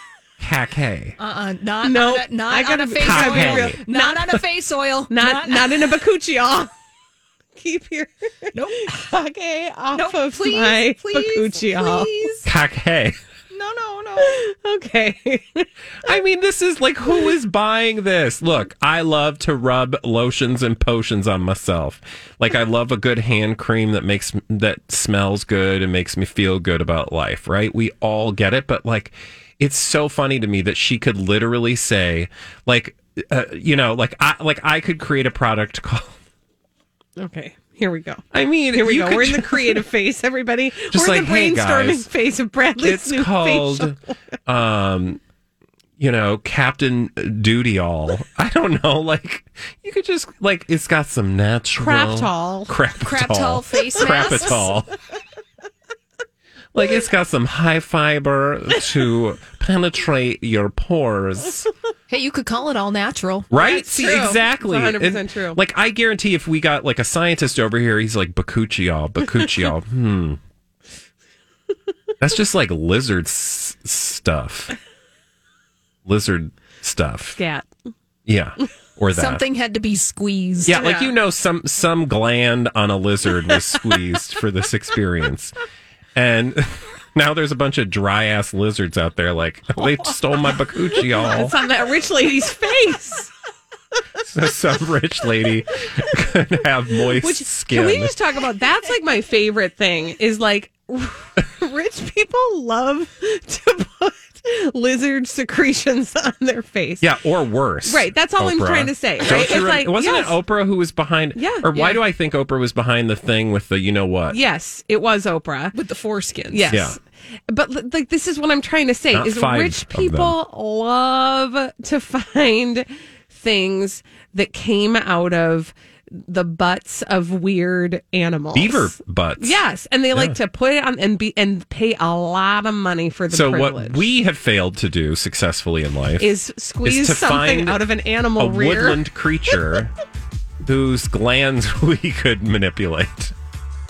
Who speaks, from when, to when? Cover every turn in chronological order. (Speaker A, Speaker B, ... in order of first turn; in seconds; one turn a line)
Speaker A: 0.4-1.1
Speaker B: 1.2-6.0
Speaker C: 1.8-4.4
Speaker A: 3.0-3.8
Speaker C: 5.1-6.7
Speaker C: 7.5-12.1
Speaker B: 8.5-9.1
Speaker B: 9.9-12.5
Speaker A: 12.4-13.2
Speaker B: 13.5-14.4
Speaker C: 14.2-16.1
Speaker A: 16.1-36.2
Speaker C: 37.2-44.1
Speaker A: 38.3-39.8
Speaker A: 40.9-42.1
Speaker A: 42.8-45.2
Speaker A: 46.0-54.9
Speaker C: 51.8-52.7
Speaker B: 53.0-54.8
Speaker A: 56.7-61.7
Speaker B: 62.1-63.5
Speaker A: 63.5-70.4
Speaker C: 63.5-65.6
Speaker A: 72.2-74.7
Speaker A: 76.0-77.4
Speaker C: 77.3-77.7
Speaker A: 78.2-79.4
Speaker B: 79.1-80.8
Speaker C: 80.7-81.1
Speaker A: 80.7-85.5
Speaker A: 86.1-91.5
Speaker C: 91.1-93.3
Speaker A: 94.3-98.2
Speaker C: 97.2-107.1
Speaker A: 107.0-114.4
Speaker C: 107.8-110.4
Speaker C: 111.3-112.0
Speaker C: 114.3-115.8
Speaker B: 115.7-116.7
Speaker C: 116.5-134.1
Speaker A: 116.7-117.0
Speaker A: 119.1-120.3
Speaker A: 128.5-129.6
Speaker A: 133.3-136.3
Speaker C: 136.2-139.0
Speaker A: 136.8-137.8
Speaker A: 138.4-139.9
Speaker A: 140.6-143.3